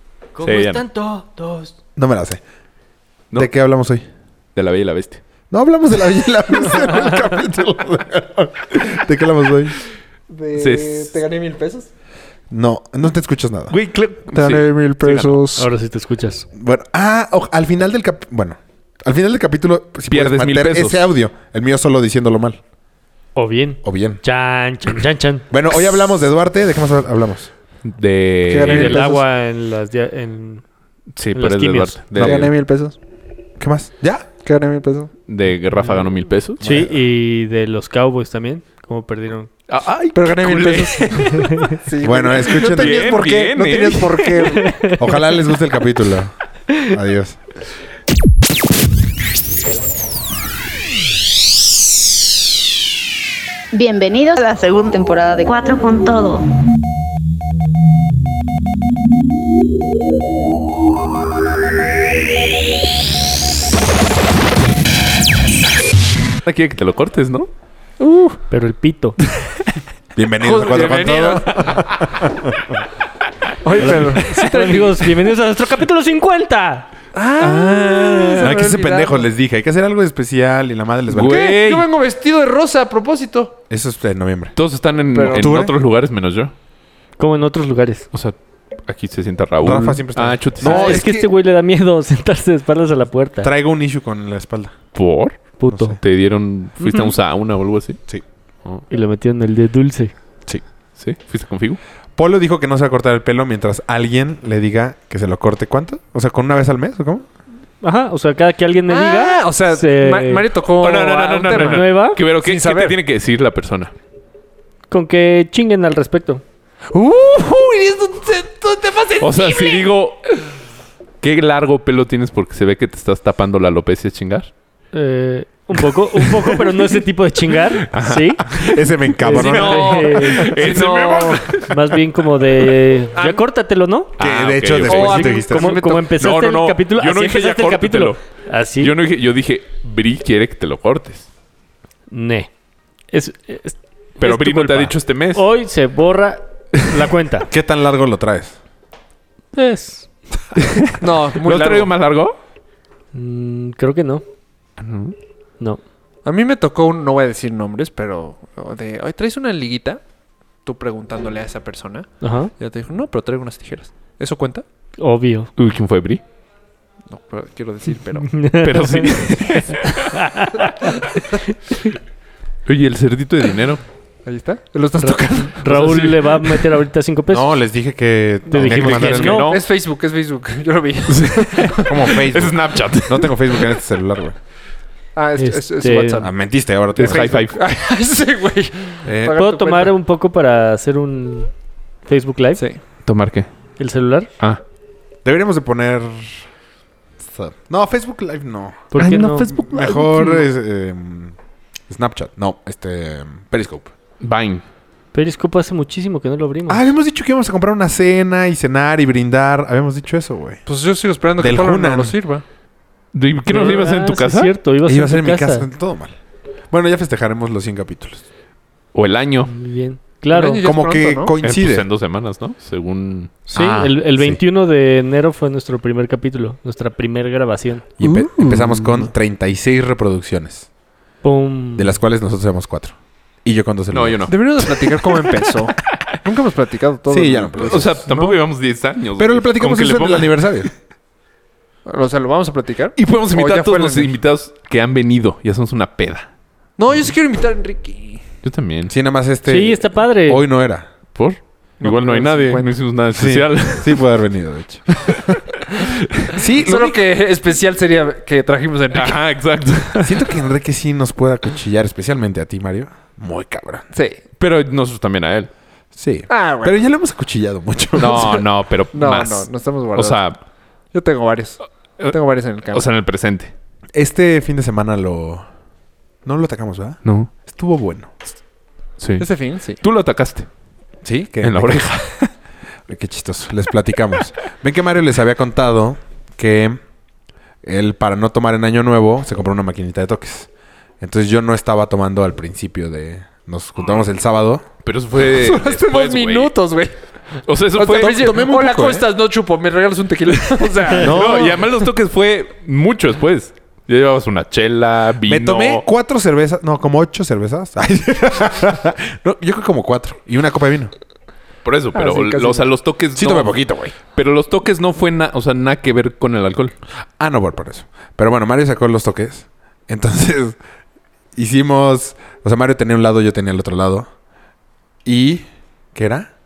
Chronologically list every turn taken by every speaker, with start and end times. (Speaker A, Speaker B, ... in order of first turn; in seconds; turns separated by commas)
Speaker A: 0.3-1.7, Speaker B: 0.4-0.8, Speaker C: 1.9-2.4, Speaker C: 3.3-4.0, Speaker B: 4.5-5.2, Speaker C: 5.5-9.8, Speaker D: 10.3-11.9, Speaker B: 10.6-11.1, Speaker C: 12.5-13.8, Speaker B: 13.7-15.4, Speaker D: 14.3-15.7, Speaker A: 15.6-16.4, Speaker C: 16.5-22.6, Speaker B: 20.1-21.1, Speaker A: 23.3-25.4, Speaker C: 23.8-24.2, Speaker C: 25.5-27.5, Speaker B: 27.8-29.1, Speaker D: 28.5-29.2, Speaker A: 28.7-30.6, Speaker B: 31.1-32.5, Speaker A: 31.3-32.2, Speaker C: 32.2-32.5, Speaker D: 32.2-32.9, Speaker C: 33.6-34.3, Speaker D: 34.4-35.1, Speaker B: 35.3-36.6, Speaker C: 36.6-37.0, Speaker A: 36.6-39.5, Speaker B: 39.7-41.6, Speaker D: 40.1-43.0, Speaker C: 42.0-47.4, Speaker B: 42.4-44.8, Speaker A: 44.6-44.9, Speaker E: 53.7-56.4, Speaker B: 66.4-67.5, Speaker D: 68.0-68.4, Speaker A: 68.5-69.2, Speaker C: 70.1-72.8, Speaker D: 70.4-71.7, Speaker D: 73.6-75.0, Speaker B: 73.8-74.4, Speaker A: 73.8-76.9, Speaker D: 77.1-79.2, Speaker A: 77.6-77.9, Speaker C: 78.4-81.5, Speaker B: 81.1-81.9, Speaker D: 81.2-83.5, Speaker C: 83.7-84.5, Speaker B: 84.5-86.5, Speaker D: 85.1-85.6, Speaker C: 85.2-85.7, Speaker A: 87.2-88.1, Speaker B: 88.1-91.0, Speaker C: 89.6-91.3, Speaker A: 90.6-93.5, Speaker C: 93.4-94.7, Speaker B: 94.9-98.0, Speaker A: 95.6-96.0, Speaker C: 95.7-96.0, Speaker A: 96.8-97.1, Speaker A: 98.9-100.1, Speaker B: 101.0-101.8, Speaker C: 102.2-107.3, Speaker A: 107.8-110.5, Speaker D: 108.9-113.0, Speaker B: 110.8-113.9, Speaker A: 111.5-112.2, Speaker A: 114.9-116.4, Speaker D: 116.9-119.8, Speaker B: 119.2-120.3, Speaker B: 121.2-124.5, Speaker A: 124.9-128.4, Speaker B: 126.1-126.5, Speaker B: 127.9-131.8, Speaker C: 128.6-130.1, Speaker A: 129.2-130.5, Speaker D: 129.4-131.5, Speaker A: 131.7-134.1, Speaker D: 133.1-133.4, Speaker B: 134.2-135.3, Speaker C: 134.2-135.7, Speaker D: 134.8-136.1, Speaker A: 135.0-138.9, Speaker B: 136.2-138.2, Speaker B: 138.8-141.3, Speaker A: 142.1-142.5, Speaker A: 143.1-147.5, Speaker B: 144.2-145.4, Speaker C: 147.5-148.6, Speaker A: 149.5-150.1, Speaker B: 150.7-152.3, Speaker D: 151.0-151.9, Speaker A: 153.1-154.2, Speaker B: 154.8-155.1, Speaker D: 156.2-160.0, Speaker D: 160.6-164.6, Speaker A: 162.2-162.5, Speaker A: 165.0-165.5, Speaker B: 165.6-166.2, Speaker D: 167.1-168.5, Speaker A: 168.3-169.0, Speaker B: 168.5-170.1, Speaker A: 170.1-170.9, Speaker B: 172.7-173.8, Speaker D: 174.2-176.0, Speaker A: 175.0-177.6, Speaker B: 175.7-176.5, Speaker C: 177.3-179.4, Speaker A: 178.5-179.5, Speaker D: 178.5-182.1, Speaker B: 178.6-179.6, Speaker B: 181.1-183.8, Speaker C: 181.9-184.3, Speaker D: 185.2-186.3, Speaker A: 185.4-186.3, Speaker C: 186.2-187.4, Speaker B: 186.9-187.6, Speaker D: 186.9-189.9, Speaker C: 189.0-189.3, Speaker A: 189.3-191.5, Speaker A: 192.0-192.6, Speaker B: 193.0-193.5, Speaker A: 193.8-194.3, Speaker C: 195.2-196.5, Speaker C: 197.2-201.3, Speaker A: 198.9-199.6, Speaker B: 199.0-200.2, Speaker C: 201.9-203.9, Speaker B: 204.2-204.6, Speaker A: 205.1-206.9, Speaker C: 206.7-210.6, Speaker D: 210.7-212.4, Speaker C: 211.4-212.1, Speaker B: 213.1-214.5, Speaker A: 213.5-215.7, Speaker C: 214.8-216.2, Speaker C: 216.7-218.2, Speaker B: 218.9-219.5, Speaker A: 219.4-220.6, Speaker D: 220.3-221.3, Speaker C: 220.6-221.8, Speaker B: 221.4-223.9, Speaker A: 223.5-227.8, Speaker C: 223.6-224.4, Speaker C: 228.0-230.7, Speaker B: 228.0-229.1, Speaker A: 231.2-232.0, Speaker C: 231.8-234.3, Speaker B: 233.9-235.2, Speaker D: 234.3-238.3, Speaker C: 237.1-238.0, Speaker B: 237.6-240.7, Speaker C: 239.2-240.7, Speaker D: 241.8-244.1, Speaker B: 242.9-246.3, Speaker D: 246.8-248.2, Speaker B: 248.4-248.9, Speaker C: 248.9-250.9, Speaker A: 249.4-250.4, Speaker B: 251.1-254.0, Speaker D: 251.8-252.7, Speaker C: 253.1-255.4, Speaker B: 255.7-256.3, Speaker C: 256.3-257.0, Speaker D: 256.6-259.2, Speaker B: 258.9-260.3, Speaker C: 260.0-263.9, Speaker D: 263.9-264.2, Speaker B: 264.4-265.5, Speaker C: 265.9-268.4, Speaker D: 266.3-266.8, Speaker B: 268.0-270.4, Speaker D: 268.9-270.2, Speaker D: 270.9-272.9, Speaker B: 272.7-273.5, Speaker C: 273.9-275.4, Speaker C: 276.2-278.1, Speaker B: 277.0-277.3, Speaker B: 279.0-280.5, Speaker D: 279.2-279.8, Speaker C: 281.0-281.9, Speaker B: 281.4-282.3, Speaker C: 282.9-286.8, Speaker C: 287.6-290.5, Speaker C: 291.0-294.6, Speaker B: 294.8-296.5, Speaker D: 295.2-297.0, Speaker B: 297.4-298.3, Speaker D: 297.8-301.8, Speaker C: 297.9-299.1, Speaker B: 300.9-305.8, Speaker C: 305.2-310.9, Speaker B: 311.6-316.7, Speaker D: 311.9-312.7, Speaker C: 313.1-313.9, Speaker C: 317.2-320.6, Speaker C: 321.3-324.1, Speaker C: 325.0-326.3